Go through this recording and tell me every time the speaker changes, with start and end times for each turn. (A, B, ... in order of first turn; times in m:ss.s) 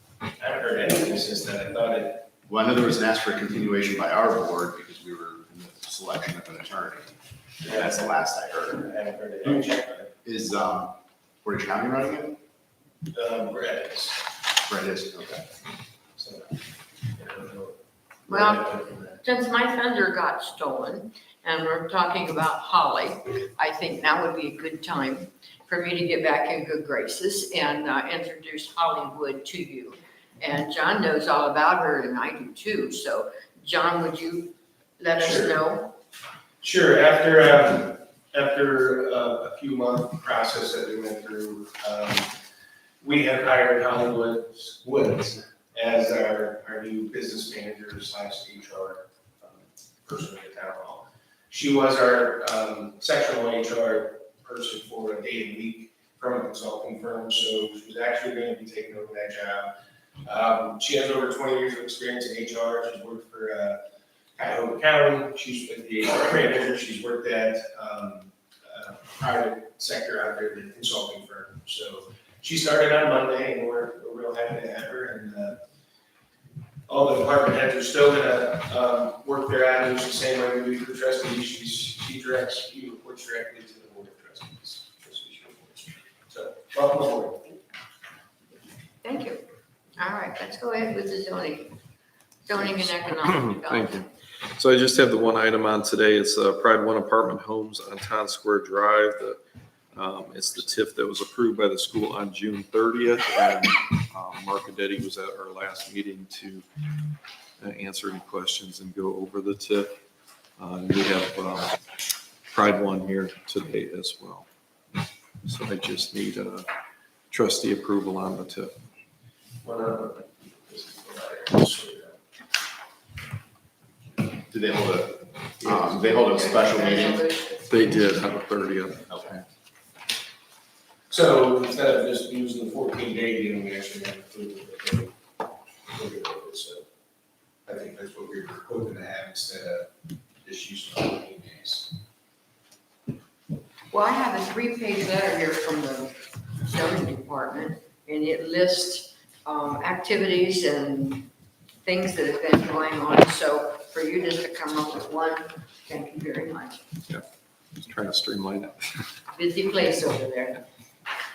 0:00.4-0:02.3 A
0:02.5-0:08.9 B
0:07.6-0:08.0 A
0:08.8-0:10.1 A
0:10.2-0:12.4 B
0:13.1-0:14.2 A
0:14.7-0:15.4 B
0:16.2-0:16.6 A
0:17.1-0:17.8 A
0:18.3-0:19.2 A
0:18.3-0:35.9 C
0:35.2-0:35.6 A
0:36.6-0:42.3 A
0:43.0-0:59.7 A
1:00.2-1:03.8 A
1:04.4-1:15.6 A
1:16.9-1:27.6 A
1:29.0-1:29.4 C
1:30.0-1:31.7 C
1:32.5-1:34.1 C
1:33.1-1:39.4 D
1:39.9-1:46.7 D
1:47.6-1:49.9 D
1:50.6-1:51.8 D
1:52.5-1:54.5 D
1:55.4-1:56.7 D
1:57.3-1:58.7 D
1:59.6-2:02.2 A
2:04.4-2:07.2 B
2:06.0-2:08.0 C
2:07.7-2:09.1 D
2:09.1-2:09.4 B
2:11.1-2:15.2 A
2:15.9-2:16.8 A
2:17.7-2:19.9 A
2:20.4-2:22.0 A
2:23.9-2:31.3 C
2:31.8-2:36.8 C
2:37.8-2:39.1 D
2:39.3-2:40.6 C